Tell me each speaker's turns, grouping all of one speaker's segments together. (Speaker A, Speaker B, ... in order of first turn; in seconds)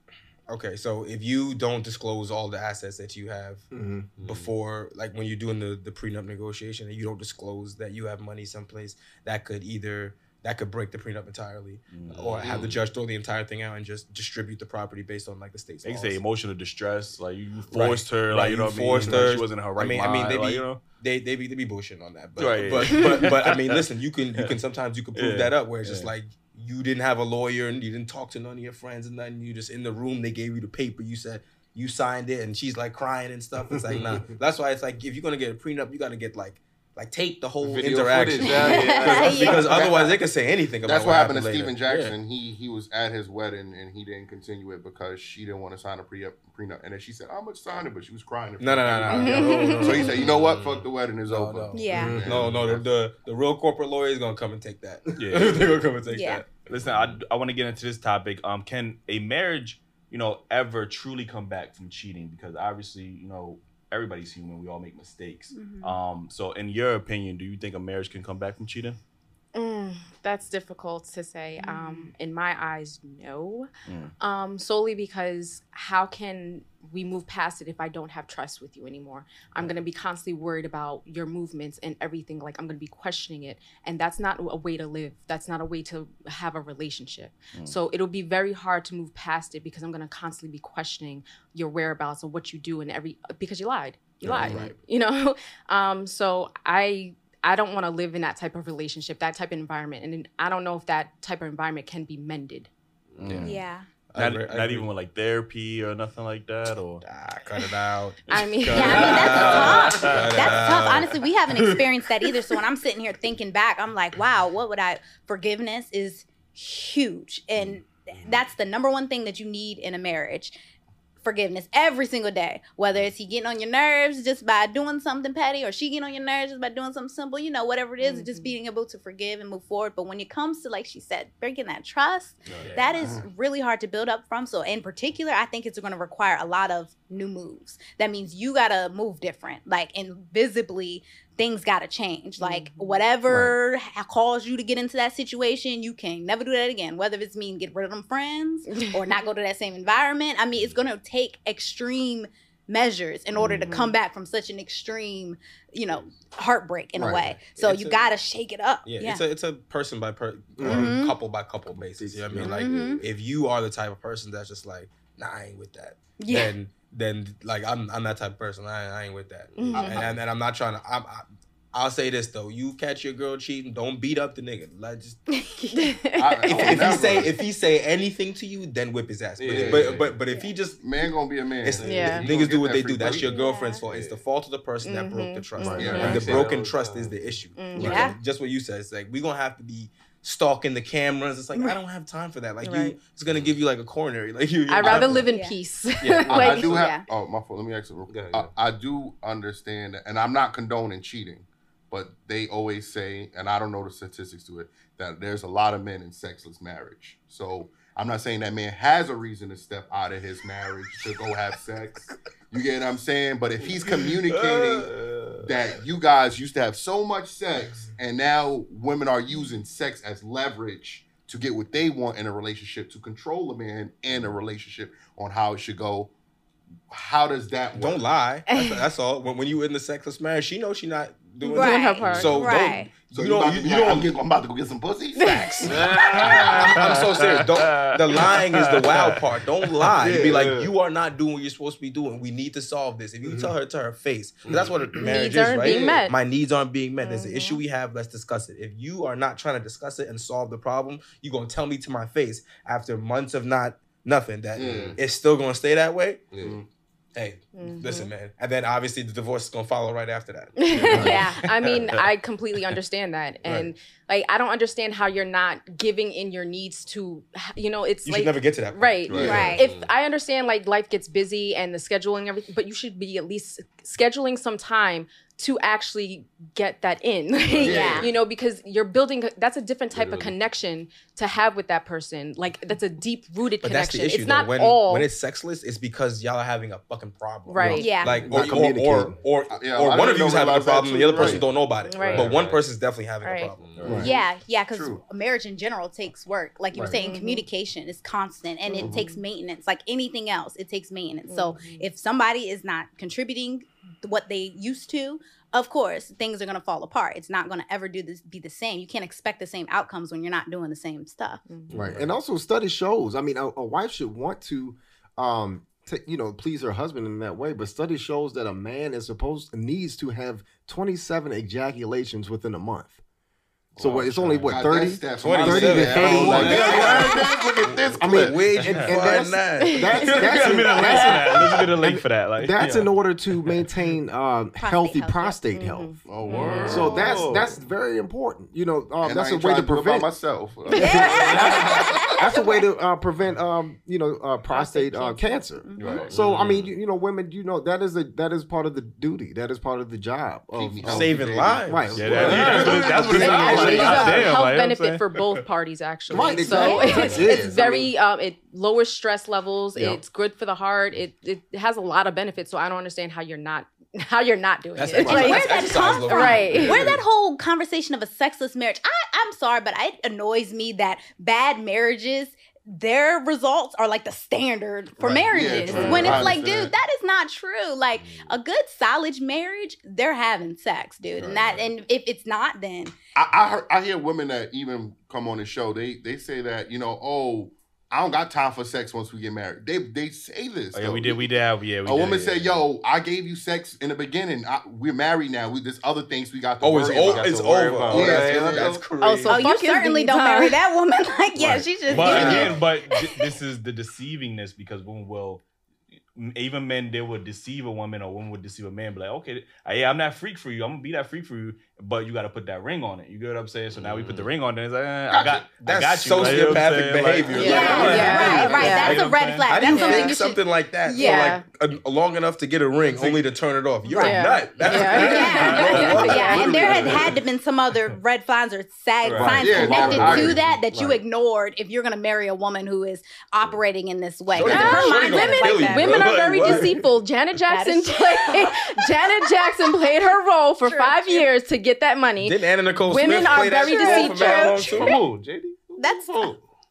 Speaker A: 0.5-3.7, 4.2-16.2, 17.7-42.1, 48.6-50.2, 51.3-56.6, 94.2-94.7, 104.1-104.9, 107.0-111.9, 157.5-158.1, 158.8-175.3, 176.5-180.8, 181.6-195.3, 196.0-196.5, 227.7-234.2, 235.5-256.2, 257.1-261.2, 268.0-269.6, 283.6-294.0, 325.2-331.3, 350.8-354.2, 364.8-366.9, 375.7-376.3, 396.6-399.4, 401.4-402.6, 415.6-427.2, 434.3-436.8, 442.2-445.0
Speaker B: 3.7-4.1, 18.9-19.3, 33.7-34.2, 51.9-52.3, 94.2-94.7, 153.4-153.7, 156.9-157.4, 160.6-160.9, 161.7-163.0, 243.2-243.5, 260.9-261.2, 287.6-289.2, 293.8-294.1, 296.7-297.0, 311.7-323.0, 323.8-327.0, 328.0-336.0, 336.7-340.1, 340.8-353.9, 356.1-357.9, 359.8-360.0, 365.0-365.3, 429.2-431.0
Speaker C: 4.2-4.5, 37.6-40.1, 50.1-50.9, 103.1-103.5, 132.5-133.2, 169.8-170.1, 179.4-180.2, 183.8-184.2, 185.7-187.4, 198.1-198.5, 214.8-215.5, 235.7-236.3, 240.0-240.7, 244.4-244.9, 254.6-255.0, 256.3-256.6, 269.1-269.9, 277.5-278.1, 279.9-280.4, 292.0-292.7, 293.6-294.1, 311.7-312.0, 325.9-328.6, 336.5-337.6, 346.0-346.5, 352.0-353.9, 375.7-376.2, 377.9-378.4, 396.8-398.8, 413.7-414.3, 429.0-430.1, 444.6-446.4
Speaker D: 11.9-12.6, 15.8-20.8, 22.4-23.8, 25.1-26.1, 55.2-55.8, 56.7-69.0, 73.8-74.1, 103.2-103.6, 104.2-107.0, 108.7-110.5, 214.4-214.7, 236.1-239.2, 328.7-328.9, 330.2-333.7, 345.8-346.1, 351.9-355.1, 390.7-392.6, 401.9-405.4, 406.1-419.4
Speaker E: 12.4-12.8, 39.7-40.1, 40.8-52.8, 169.7-170.1, 176.2-177.3, 179.4-180.1, 180.8-183.3, 185.7-186.5, 196.3-226.1, 226.9-228.0, 233.1-236.7, 254.6-255.0, 256.4-256.6, 269.1-269.5, 277.6-278.1, 289.5-291.5, 293.8-295.0, 298.8-299.1, 323.7-328.0, 336.0-337.3, 339.0-341.9, 350.5-354.1, 375.0-376.7, 383.1-391.3, 391.8-398.8, 415.1-415.5, 416.1-416.6, 422.8-423.2, 429.4-430.4
Speaker F: 38.4-39.6, 51.7-52.1, 56.1-56.4, 65.5-66.0, 71.6-72.1, 103.4-103.9, 108.7-120.5, 121.2-159.2, 160.6-161.1, 162.3-163.0, 166.2-166.5, 175.4-175.7, 183.3-183.8, 187.8-188.1, 195.3-195.6, 196.3-197.1, 231.5-232.9, 269.2-269.6, 277.6-278.1, 287.7-288.2, 293.9-311.4, 334.6-335.4, 340.7-342.6, 345.6-346.0, 365.0-382.9, 399.2-403.2, 417.4-421.3, 423.9-436.1, 437.5-438.7, 440.6-441.2, 442.9-445.0, 445.8-446.3
Speaker G: 49.1-50.0, 69.5-73.7, 74.2-102.7, 108.3-109.8, 128.0-128.5, 142.4-143.1, 148.7-149.1, 153.4-153.9, 169.5-170.0, 175.7-177.2, 181.8-182.3, 184.8-186.3, 187.5-188.2, 192.6-193.0, 194.7-196.9, 231.4-232.5, 235.2-235.6, 245.0-246.2, 247.0-247.6, 257.5-258.1, 260.6-285.1, 287.5-288.1, 291.9-292.3, 293.2-293.5, 296.9-297.4, 298.6-299.2, 301.2-301.9, 311.5-311.7, 329.6-330.2, 335.5-336.9, 340.8-341.4, 344.5-346.1, 353.2-366.9, 399.0-400.6, 417.3-419.1, 419.7-420.2, 420.9-421.4, 423.9-426.9, 434.4-444.8